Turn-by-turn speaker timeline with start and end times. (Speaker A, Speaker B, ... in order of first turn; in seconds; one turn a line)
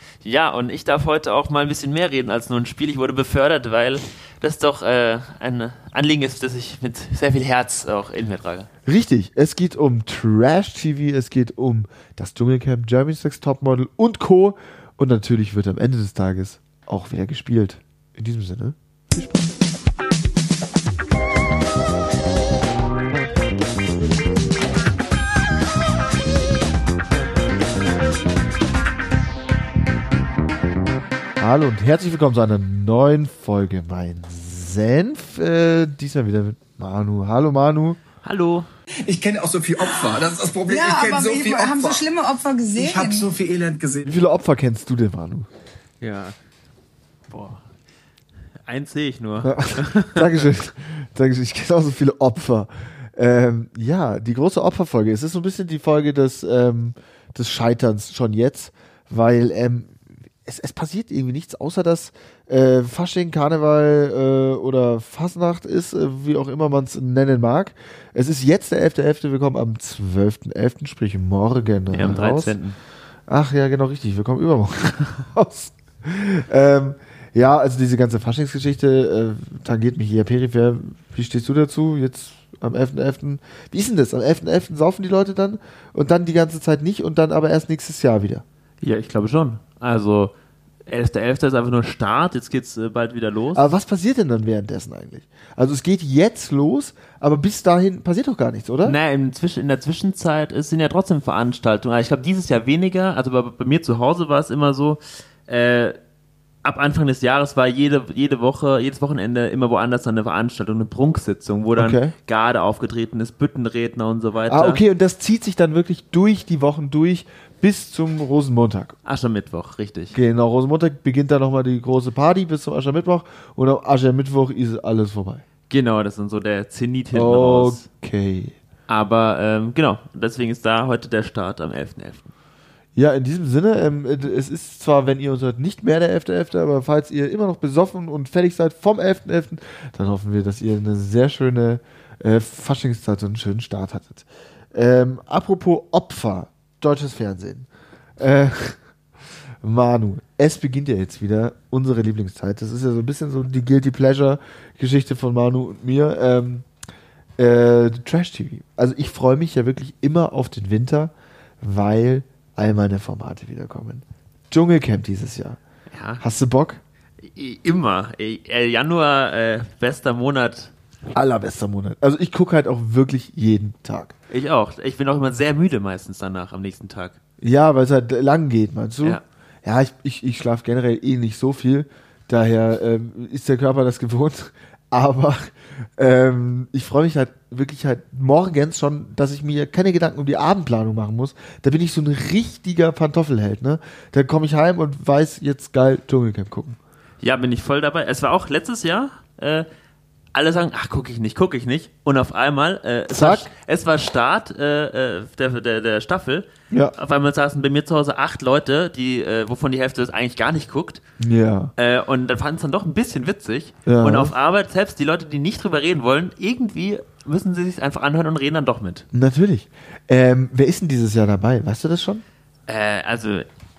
Speaker A: 0.2-8.7
Speaker B: 8.9-19.5
Speaker B: 31.4-38.0
Speaker A: 38.2-38.7
Speaker C: 39.1-42.0
Speaker D: 39.8-40.1
Speaker D: 40.7-43.3
Speaker C: 42.8-44.1
Speaker B: 44.1-45.5
Speaker A: 46.0-46.4
Speaker A: 47.3-47.6
Speaker A: 48.6-50.5
Speaker B: 49.4-59.9
Speaker B: 60.5-72.5
Speaker A: 71.9-72.8
Speaker B: 73.3-88.4
Speaker A: 88.8-90.3
Speaker A: 90.9-93.7
Speaker B: 93.5-99.0
Speaker A: 98.8-106.0
Speaker A: 106.6-114.8
Speaker B: 111.8-112.1
Speaker B: 114.5-119.0
Speaker A: 119.0-120.2
Speaker B: 120.1-125.4
Speaker A: 125.7-127.8
Speaker B: 127.1-128.6
Speaker A: 128.9-132.3
Speaker B: 133.0-147.7
Speaker B: 148.2-148.8
Speaker B: 149.6-156.7
Speaker B: 157.4-165.6
Speaker A: 165.9-166.2
Speaker B: 166.2-166.8
Speaker A: 167.2-170.7
Speaker B: 171.1-174.2
Speaker A: 174.3-177.2
Speaker B: 177.4-196.8
Speaker A: 197.2-199.7
Speaker A: 200.3-211.0
Speaker B: 203.1-203.5
Speaker B: 211.2-211.7
Speaker A: 211.8-219.1
Speaker B: 213.9-214.3
Speaker B: 219.1-222.2
Speaker A: 222.7-223.5